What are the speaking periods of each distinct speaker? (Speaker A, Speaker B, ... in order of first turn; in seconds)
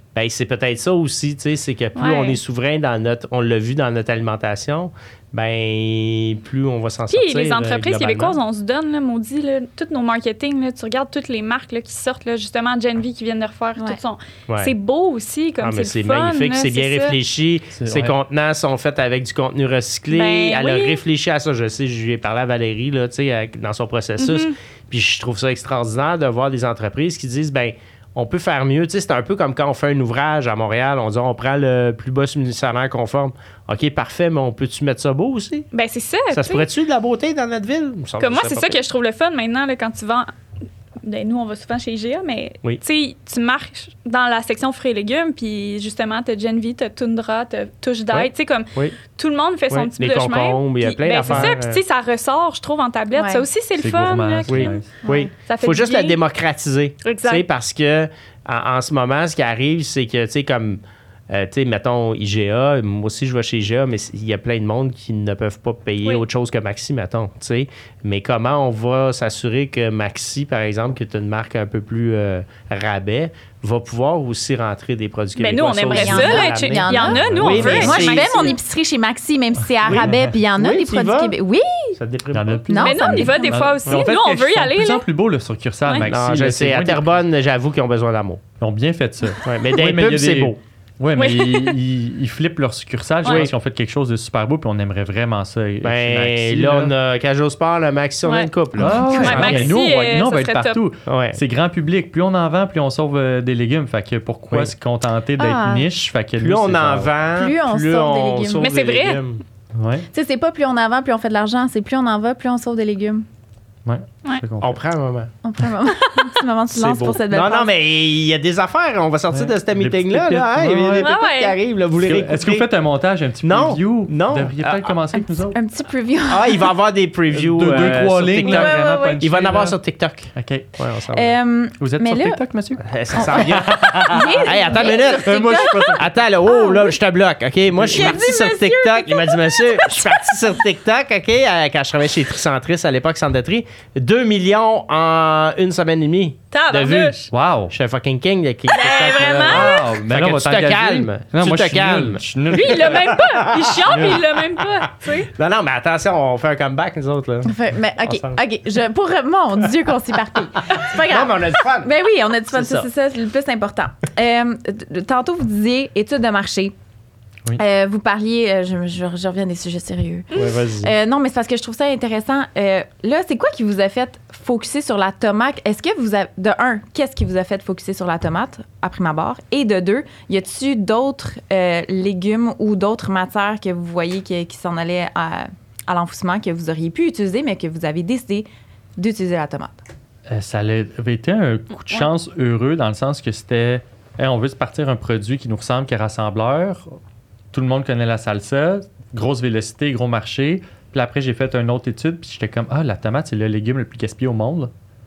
Speaker A: 0.1-8.4, 14.5-14.7, 15.6-35.7, 36.3-38.8, 48.1-49.0, 49.7-51.8, 54.5-78.6, 80.5-81.4, 82.0-82.6, 86.0-88.4, 89.4-90.6, 93.2-93.5, 95.8-99.7, 101.0-101.4, 106.4-109.4, 114.6-115.3, 116.7-122.7, 123.4-124.9, 126.3-131.4, 132.8-157.5, 158.0-158.4, 160.7-161.9, 162.5-162.9, 170.3-170.9
Speaker B: 1.9-2.4, 7.1-17.1, 20.1-21.0, 24.2-24.6, 35.7-36.7, 38.2-40.3, 41.0-56.2, 57.0-57.4, 75.4-78.5, 82.8-85.0, 91.2-91.8, 98.2-98.5, 99.0-100.8, 108.6-109.2, 121.0-121.6, 138.0-138.3, 146.5-147.2, 148.7-149.9, 152.5-155.3
Speaker C: 17.7-18.1, 53.8-54.9, 77.2-78.0, 79.8-80.3, 82.3-87.2, 88.6-96.9, 98.8-107.1, 109.8-110.0, 113.8-114.8, 119.3-121.1, 122.0-125.6, 127.3-129.8, 130.3-130.7, 131.8-134.3, 135.2-136.0, 147.3-147.7, 149.2-153.2, 153.9-154.2, 190.3-196.9, 197.5-204.7
Speaker D: 53.1-53.4, 55.0-55.3, 75.9-82.0, 82.7-83.6, 98.8-99.6, 105.4-105.8, 107.4-108.7, 110.1-113.3, 115.4-117.7, 125.1-126.7, 128.4-129.2, 131.1-132.4, 133.1-136.9, 137.9-140.3, 157.4-166.7, 167.6-189.8